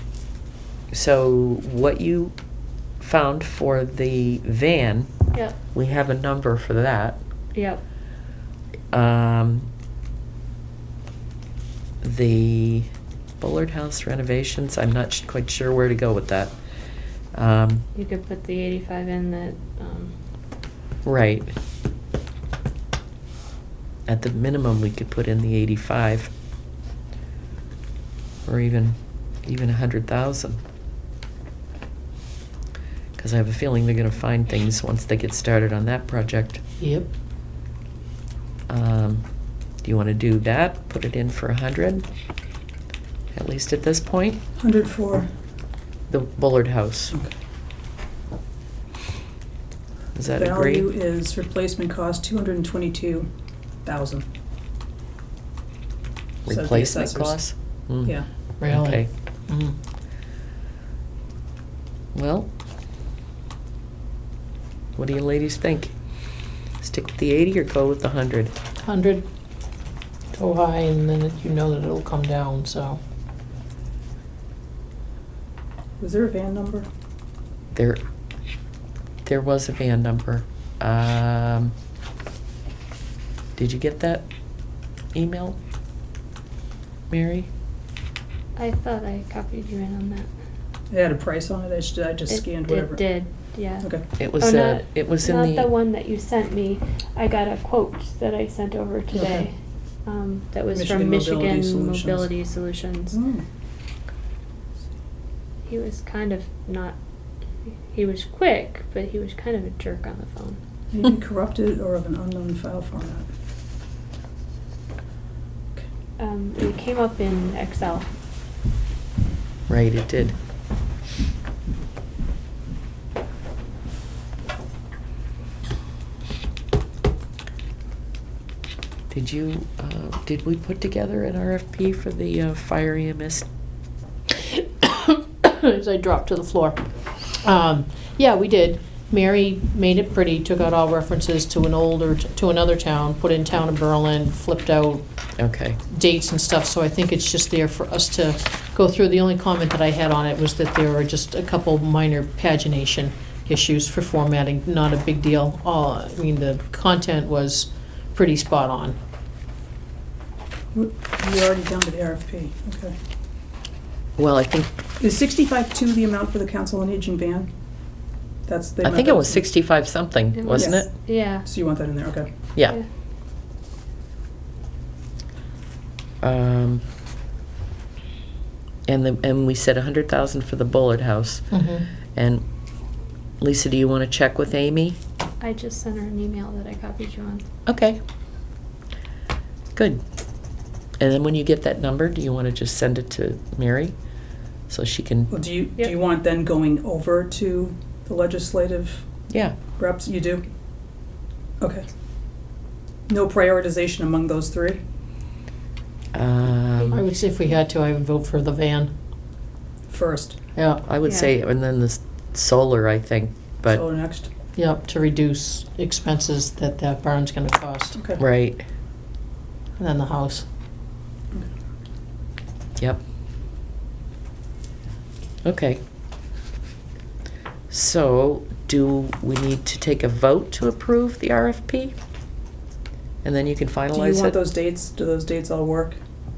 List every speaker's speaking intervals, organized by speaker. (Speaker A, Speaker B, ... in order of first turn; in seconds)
Speaker A: 0.9-2.4, 3.0-5.1, 5.7-7.2, 8.9-9.7, 12.0-12.9, 13.4-16.6, 17.3-17.9, 21.0-21.5, 24.1-26.3, 28.4-30.6, 33.2-36.6, 38.7-39.2, 39.8-42.0, 43.3-44.4, 46.1-47.1, 50.1-50.9, 56.5-59.1, 62.1-62.5, 65.0-65.9, 66.8-68.5, 77.7-78.0, 79.2-81.7, 83.5-84.3, 85.1-85.6, 87.1-87.5, 94.2-95.7, 119.7-120.3, 129.1-133.5, 145.4-145.8, 164.2-164.7, 168.8-170.9, 176.2-176.8, 178.9-181.5, 182.1-182.4, 183.4-185.0, 187.7-188.0, 189.8-190.0, 191.0-193.9, 194.7-195.3, 199.3-199.6, 206.1-207.0, 210.8-213.8, 218.2-218.6, 225.4-225.8, 227.7-231.9, 233.2-234.3
Speaker B: 7.5-7.8, 17.9-20.1, 88.5-90.3, 92.3-93.9, 94.4-99.5, 100.0-103.1, 105.7-107.0, 107.9-110.6, 116.2-118.1, 170.3-171.5, 185.4-187.4, 211.0-211.3
Speaker C: 36.8-37.1, 58.6-59.8, 68.8-69.2, 70.3-73.0, 134.5-136.9, 137.4-145.0, 145.9-159.0, 181.5-181.8, 206.9-208.9, 210.6-210.8, 214.6-218.0, 219.8-220.4
Speaker D: 44.6-45.3, 50.4-53.3, 53.8-54.2, 56.5-57.4, 76.0-76.9, 90.9-93.0, 99.1-99.5, 100.7-102.3, 103.1-103.4, 110.9-113.3, 160.7-162.9, 165.0-167.5, 168.4-169.4, 170.5-172.3, 195.3-199.0, 199.8-200.4, 201.6-201.8, 203.1-204.8, 209.9-210.4, 213.7-214.3, 217.9-218.2, 233.9-236.0